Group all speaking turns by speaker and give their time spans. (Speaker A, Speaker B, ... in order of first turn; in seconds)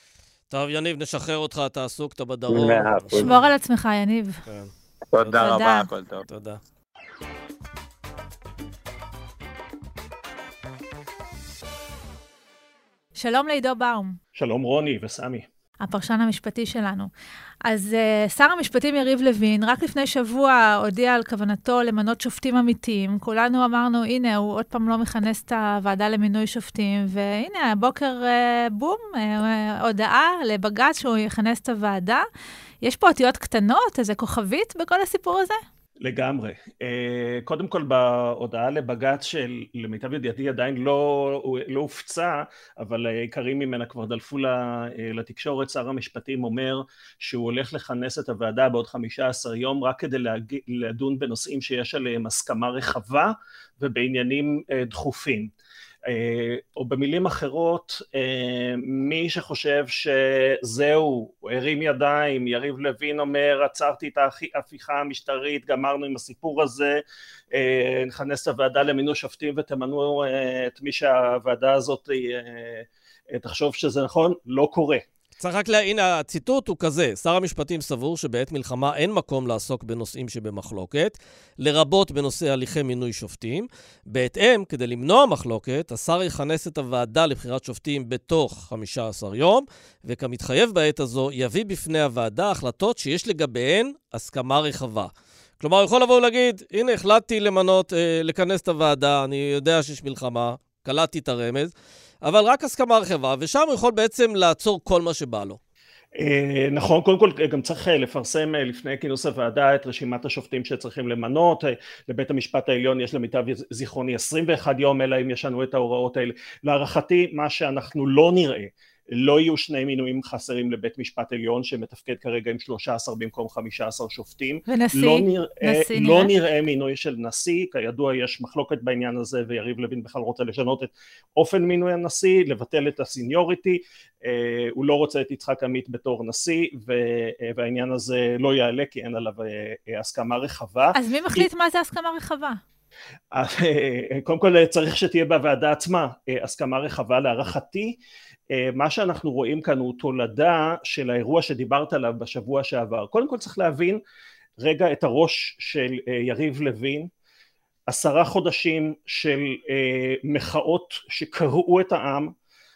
Speaker A: 0.5-3.5, 4.5-5.5, 6.3-6.6, 75.4-101.7, 102.2-105.6
Speaker B: 2.5-3.3, 5.1-6.2
Speaker C: 3.1-4.4, 5.4-5.9, 13.2-14.2, 15.8-17.1, 17.6-32.2, 32.8-35.6, 124.7-126.3, 140.9-142.6
Speaker D: 14.4-15.4, 36.0-55.5, 56.1-67.0, 67.5-75.0, 106.2-141.5, 143.3-148.0, 148.5-154.0, 154.6-157.1, 157.9-162.3